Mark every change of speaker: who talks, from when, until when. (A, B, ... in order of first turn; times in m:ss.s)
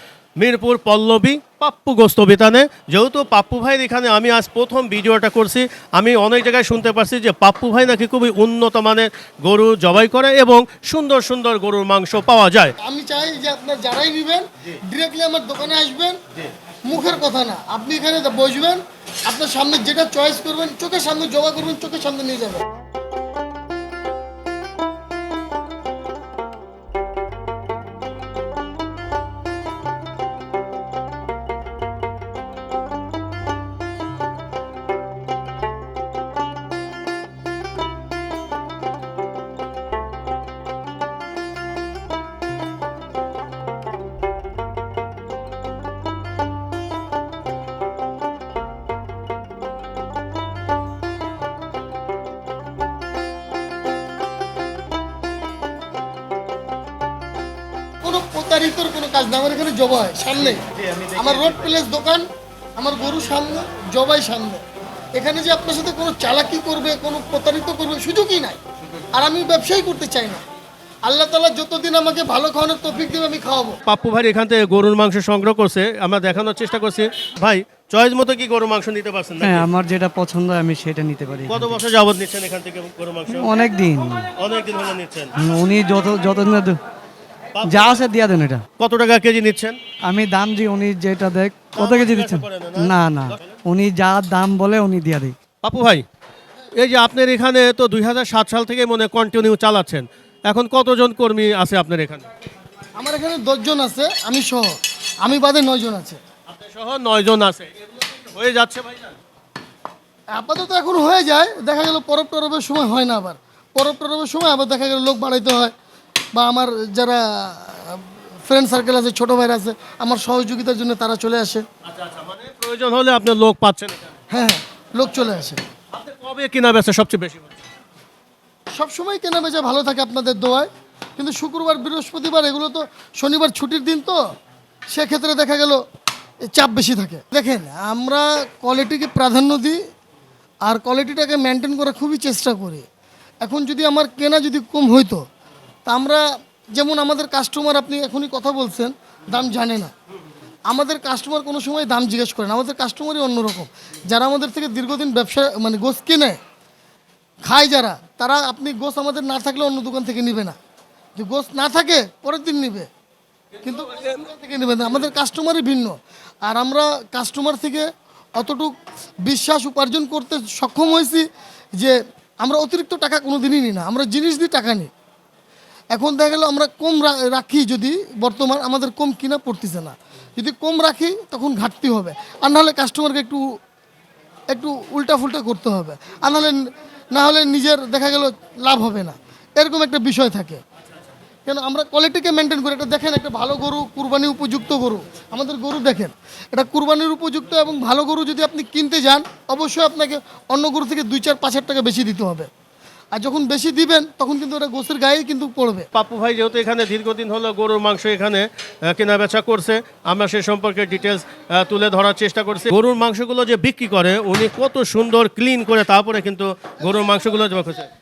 0:00.4-0:12.7 A
0:12.8-0:16.2 B
0:16.9-0:22.6 B
0:58.0-1:02.2 B
1:02.8-1:04.6 B
1:05.2-1:08.6 B
1:09.1-1:10.4 B
1:11.0-1:13.8 B
1:13.8-1:19.7 A
1:19.4-1:21.7 C
1:21.5-1:23.5 A
1:23.3-1:24.3 C
1:24.4-1:25.3 A
1:25.4-1:26.8 C
1:27.6-1:28.0 A
1:27.6-1:28.6 C
1:28.8-1:29.8 A
1:30.1-1:35.4 C
1:31.7-1:33.6 A
1:35.6-1:36.0 A
1:36.8-1:42.3 A
1:43.0-1:46.2 B
1:46.5-1:49.2 A
1:50.3-1:55.7 B
1:56.3-2:01.6 B
2:01.8-2:04.2 A
2:04.3-2:05.6 B
2:05.9-2:07.6 A
2:08.7-2:14.2 B
2:14.9-2:15.8 B
2:16.5-2:19.8 B
2:20.6-2:22.8 B
2:23.4-2:25.2 B
2:25.8-2:29.9 B
2:30.7-2:36.4 B
2:37.4-2:40.6 B
2:41.2-2:42.9 B
2:43.6-2:47.9 B
2:43.6-2:44.2 A
2:48.4-2:54.9 B
2:55.9-3:03.4 B
3:04.5-3:10.6 B
3:11.4-3:22.5 B
3:23.1-3:25.9 B
3:25.9-3:37.9 A